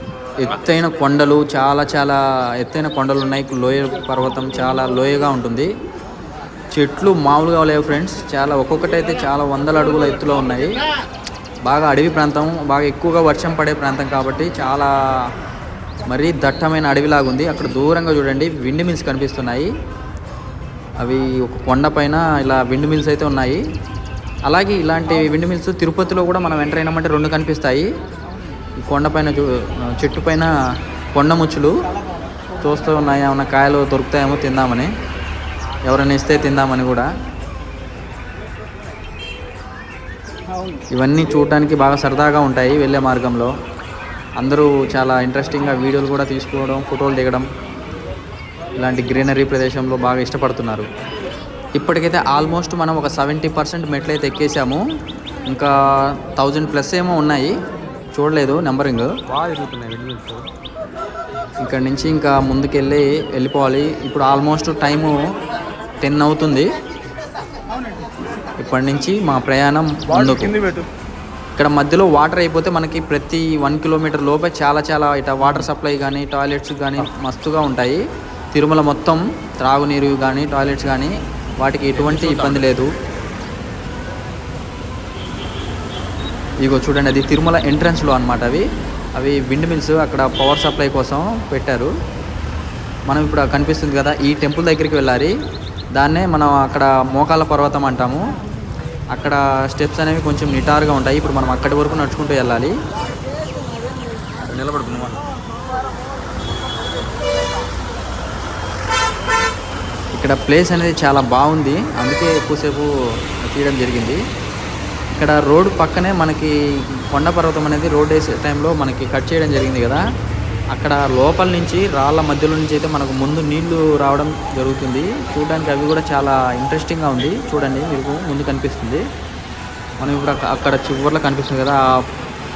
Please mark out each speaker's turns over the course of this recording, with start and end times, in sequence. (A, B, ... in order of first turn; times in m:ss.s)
0:00.4-0:05.7 A
0:06.7-0:10.8 A
0:11.6-0:14.9 A
0:16.0-0:19.7 A
0:21.0-0:23.6 A
0:24.4-0:27.9 A
0:28.8-0:30.5 A
0:31.1-0:31.7 A
0:32.6-0:34.9 A
0:35.8-0:37.1 A
0:40.9-0:43.5 A
0:44.4-0:47.5 A
0:48.8-0:50.9 A
0:51.8-0:54.8 A
0:56.2-0:57.6 A
0:58.2-0:59.1 A
0:59.3-1:00.5 B
1:01.6-1:05.2 A
1:06.0-1:06.7 A
1:08.6-1:10.6 A
1:11.6-1:18.0 A
1:18.5-1:22.9 A
1:21.9-1:22.8 B
1:26.6-1:31.9 A
1:33.1-1:35.3 A
1:36.0-1:38.2 A
1:39.1-1:42.8 A
1:44.4-1:45.2 B
1:50.1-1:52.9 A
1:53.5-1:54.2 A
1:55.1-1:56.5 A
1:57.1-2:00.0 A
2:00.7-2:09.0 A
2:10.0-2:11.8 A